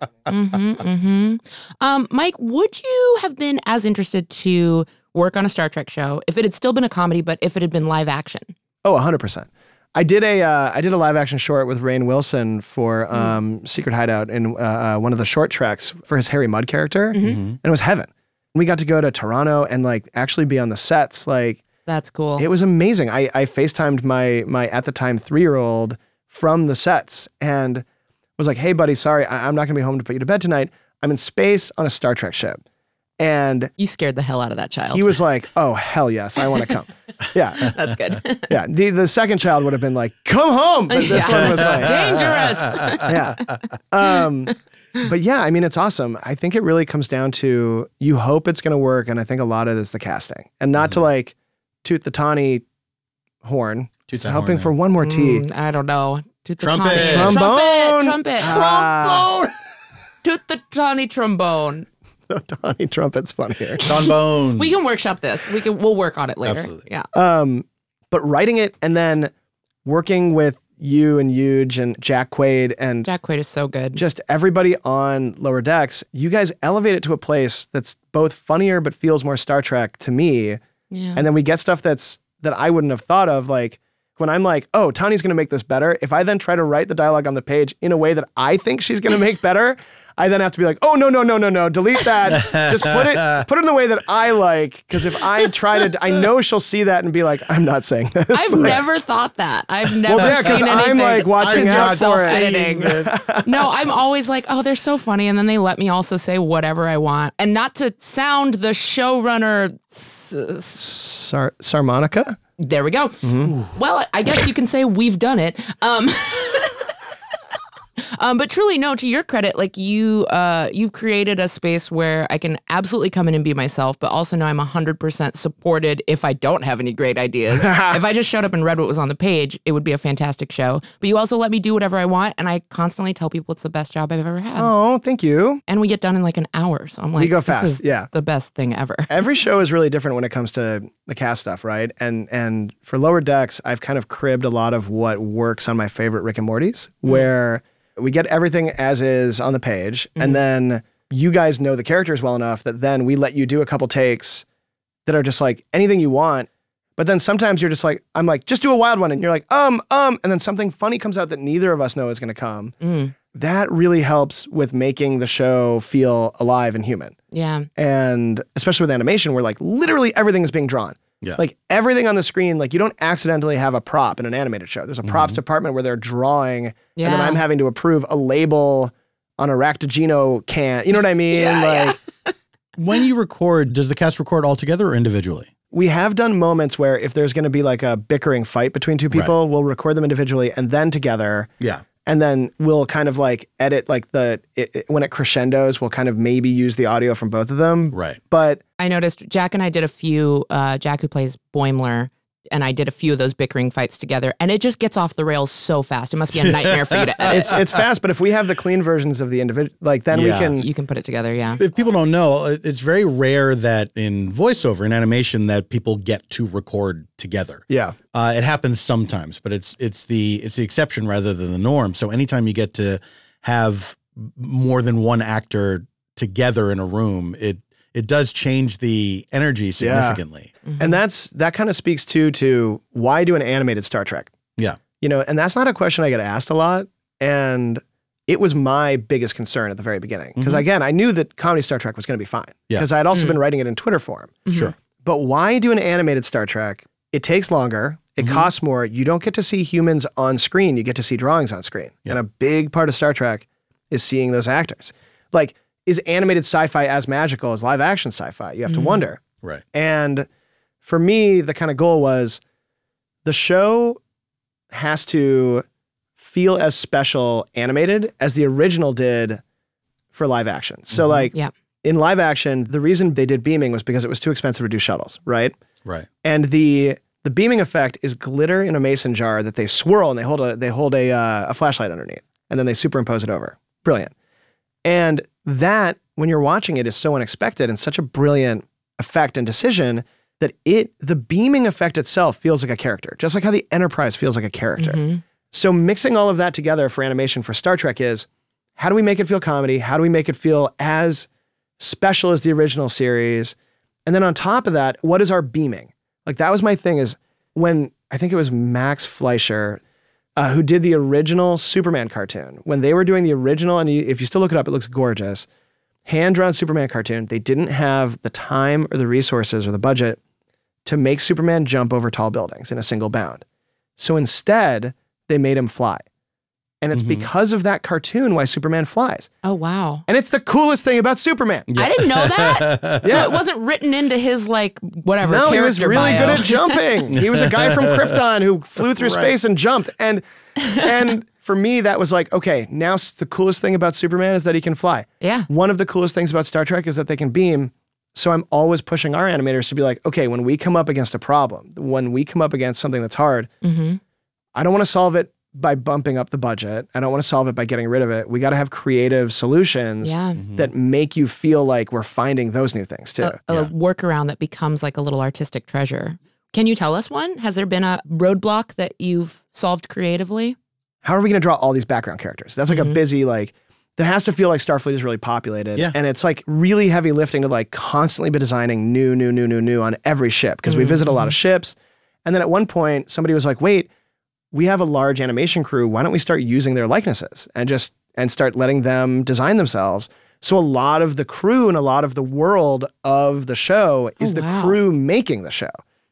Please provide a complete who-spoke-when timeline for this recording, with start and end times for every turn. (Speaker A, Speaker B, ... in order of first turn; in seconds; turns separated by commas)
Speaker A: 0.3-8.5, Speaker B: 8.8-21.6, Speaker A: 17.1-17.4, Speaker C: 17.2-17.6, Speaker A: 21.9-22.4, Speaker B: 22.4-27.8, Speaker B: 28.4-32.6, Speaker B: 33.2-33.7, Speaker A: 33.8-35.0, Speaker B: 34.9-37.7, Speaker A: 37.6-38.6, Speaker B: 38.5-41.9, Speaker A: 40.9-43.2, Speaker C: 41.3-43.0, Speaker B: 43.0-52.6, Speaker B: 53.4-55.4, Speaker C: 54.1-54.7, Speaker A: 55.0-58.6, Speaker C: 56.6-57.5, Speaker B: 56.9-59.3, Speaker C: 58.4-59.5, Speaker A: 60.2-61.9, Speaker B: 62.3-63.8, Speaker A: 63.8-67.1, Speaker C: 63.8-64.7, Speaker C: 66.4-66.8, Speaker B: 67.1-69.3, Speaker B: 69.8-73.1, Speaker A: 73.0-74.0, Speaker B: 73.9-80.6, Speaker A: 80.9-81.2, Speaker B: 81.1-98.8, Speaker C: 92.4-92.8, Speaker A: 98.3-110.8, Speaker B: 100.1-103.7, Speaker C: 100.1-103.3, Speaker B: 110.7-112.4, Speaker A: 112.6-116.9, Speaker B: 113.2-113.5, Speaker A: 118.2-134.7, Speaker B: 127.6-128.0, Speaker B: 134.6-135.6, Speaker A: 135.7-139.2, Speaker B: 137.2-138.1, Speaker B: 139.1-154.4, Speaker B: 155.1-167.2, Speaker A: 162.8-163.1, Speaker A: 167.3-167.7, Speaker B: 167.8-182.0, Speaker C: 175.0-175.4, Speaker A: 176.9-177.4, Speaker A: 181.3-182.0, Speaker C: 182.8-185.5, Speaker B: 185.7-191.5, Speaker B: 192.0-198.6, Speaker C: 197.9-198.2, Speaker A: 198.8-207.6, Speaker C: 206.4-207.4, Speaker B: 207.3-210.7, Speaker C: 210.1-210.5, Speaker A: 210.6-211.6, Speaker C: 211.6-230.5, Speaker B: 217.7-218.0, Speaker B: 229.8-230.2, Speaker A: 230.7-230.9, Speaker B: 230.8-234.3, Speaker B: 235.0-244.4, Speaker C: 240.4-240.6, Speaker A: 244.5-244.7, Speaker B: 245.0-259.2, Speaker C: 248.2-248.5, Speaker A: 258.7-259.0, Speaker B: 259.7-260.3, Speaker B: 260.8-262.4, Speaker B: 263.2-264.0, Speaker B: 264.7-265.6, Speaker B: 266.2-269.4, Speaker B: 270.1-275.6, Speaker C: 270.9-271.2, Speaker B: 276.2-284.1, Speaker B: 284.8-301.3, Speaker A: 294.8-295.2, Speaker B: 301.8-303.5, Speaker B: 304.1-309.8, Speaker B: 310.4-315.5, Speaker B: 316.1-320.2, Speaker B: 320.8-323.4, Speaker B: 324.0-326.0, Speaker B: 326.8-329.3, Speaker C: 326.9-327.3, Speaker A: 329.4-330.0, Speaker B: 330.1-331.7, Speaker C: 331.7-333.4, Speaker A: 331.8-336.8, Speaker B: 333.0-333.4, Speaker B: 335.2-353.5, Speaker C: 336.0-336.4, Speaker C: 337.1-338.1, Speaker C: 338.9-339.3, Speaker A: 345.2-345.5, Speaker A: 353.6-354.0, Speaker B: 354.5-363.4, Speaker A: 360.0-360.4, Speaker C: 360.4-360.7, Speaker A: 363.2-370.6, Speaker B: 371.0-383.9, Speaker A: 372.7-373.0, Speaker A: 380.7-381.3, Speaker B: 384.5-395.8, Speaker A: 394.2-394.8